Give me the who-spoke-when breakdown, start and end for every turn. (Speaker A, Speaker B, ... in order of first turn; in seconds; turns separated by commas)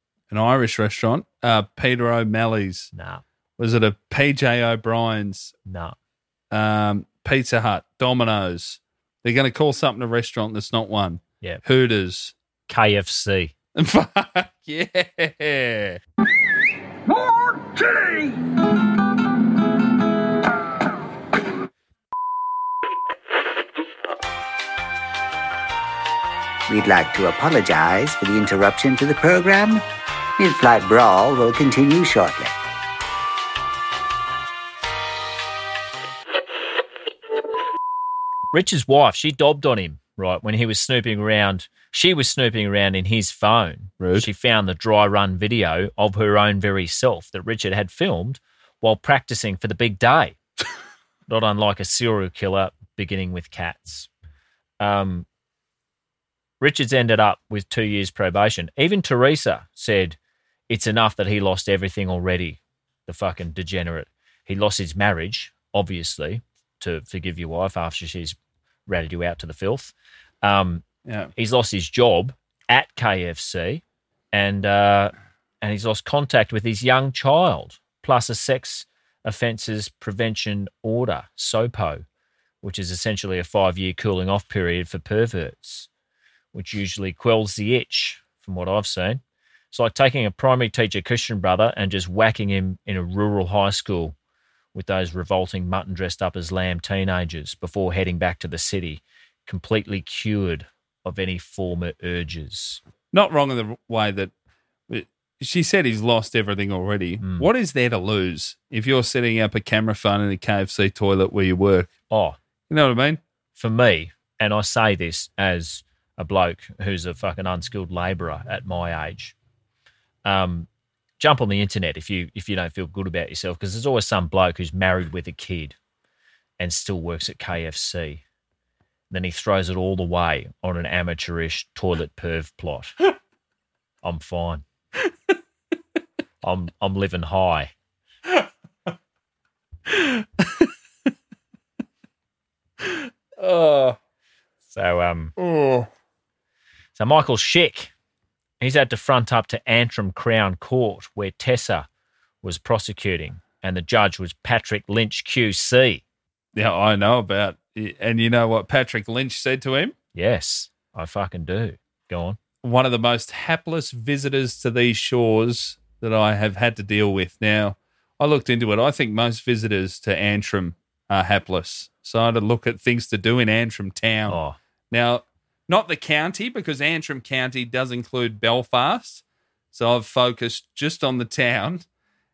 Speaker A: 0.3-2.9, Speaker B: 2.9-3.2, Speaker A: 3.6-5.5, Speaker B: 5.7-6.0, Speaker A: 6.5-12.3, Speaker B: 12.7-13.5, Speaker A: 13.8-16.0, Speaker C: 26.7-29.8, Speaker C: 30.4-32.5, Speaker B: 38.5-50.4, Speaker A: 44.0-44.3, Speaker B: 51.3-54.1, Speaker B: 54.8-55.2, Speaker B: 56.6-60.2, Speaker B: 60.7-68.4, Speaker B: 68.9-82.0, Speaker A: 71.0-71.3, Speaker B: 82.6-85.9, Speaker B: 86.5-94.1, Speaker B: 94.7-102.8, Speaker A: 103.1-104.3, Speaker A: 104.9-111.9, Speaker B: 107.2-107.5, Speaker B: 112.1-112.4, Speaker A: 112.7-113.2, Speaker B: 113.5-119.3, Speaker B: 120.2-120.7, Speaker B: 121.2-125.8, Speaker B: 126.6-128.2, Speaker B: 129.1-132.9, Speaker B: 134.0-134.6, Speaker B: 136.4-137.7, Speaker A: 139.9-140.2, Speaker A: 142.9-144.0, Speaker B: 144.7-145.3, Speaker A: 145.4-145.9, Speaker B: 146.9-147.9, Speaker B: 148.6-151.9, Speaker B: 152.4-156.0, Speaker A: 156.5-159.9, Speaker B: 160.1-162.4, Speaker A: 162.6-174.4, Speaker B: 174.3-174.6, Speaker A: 174.9-181.9